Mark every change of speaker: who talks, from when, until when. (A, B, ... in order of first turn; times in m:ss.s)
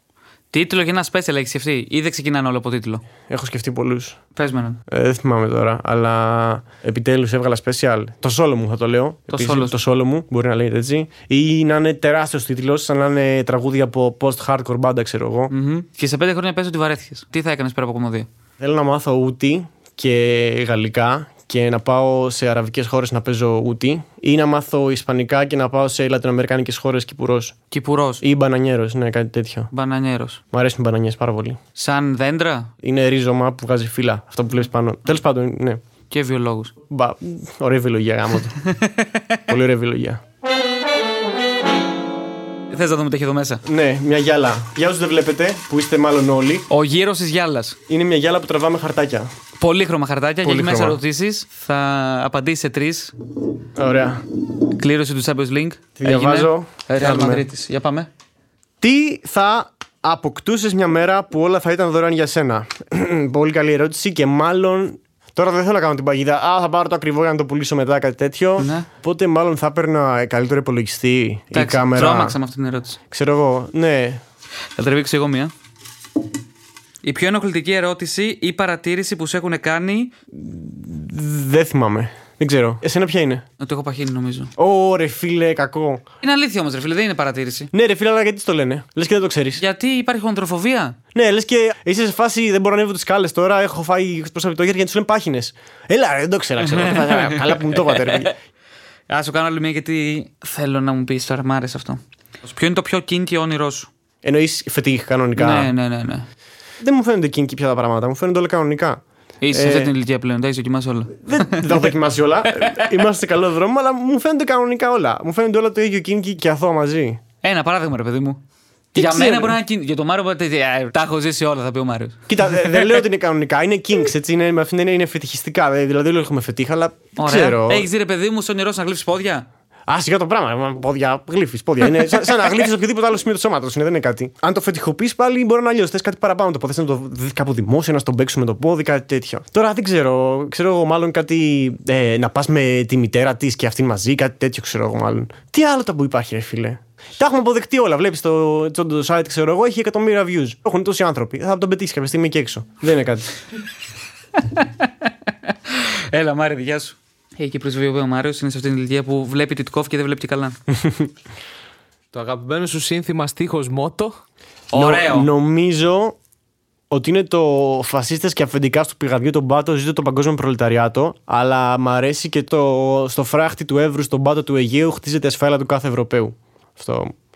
0:00.5-0:03.0 A
0:03.3-0:04.2 B
0:04.4-0:04.8 A
0:04.9-0:15.5 B
0:09.3-0:09.8 A
0:15.5-0:18.3 A
0:18.6-0:27.6 B
0:27.7-0:28.2 A
0:28.2-0:29.7 B
0:29.7-0:30.4 A
0:30.5-0:31.6 B
0:31.8-0:32.7 A
0:32.8-0:35.8 B
0:36.1-0:36.7 A
0:36.9-0:38.6 B
0:38.6-0:39.4 A
0:39.5-0:40.2 B
0:42.7-0:43.6 A
0:43.6-0:46.7 B
0:46.7-0:47.8 A
0:47.9-0:49.3 B
0:49.6-0:53.2 A
0:50.4-0:51.0 B
0:53.8-0:54.2 B
0:54.7-0:58.1 A
0:56.0-0:57.4 B
0:58.8-1:12.4 B
1:08.6-1:08.9 A
1:11.5-1:13.0 A
1:13.1-1:14.2 B
1:14.8-1:15.5 A
1:17.0-1:20.1 A
1:20.3-1:23.4 B
1:23.6-1:24.5 A
1:24.6-1:26.0 B
1:26.2-1:27.7 A
1:27.7-1:29.6 B
1:29.6-1:31.0 A
1:31.1-1:38.3 B
1:36.7-1:38.3 A
1:39.1-1:43.9 A
1:44.2-1:45.7 B
1:45.4-1:46.3 A
1:46.8-1:49.9 B
1:49.4-1:52.0 A
1:51.2-1:57.2 B
1:52.6-1:52.9 A
1:57.4-1:58.4 A
1:59.0-1:59.6 B
1:59.0-2:02.6 A
2:02.3-2:07.9 B
2:07.2-2:09.5 A
2:09.9-2:33.3 B
2:34.4-2:40.6 A
2:40.7-2:41.1 B
2:42.1-2:44.2 C
2:44.7-2:45.3 A
2:44.7-2:46.2 B
2:46.9-2:57.1 B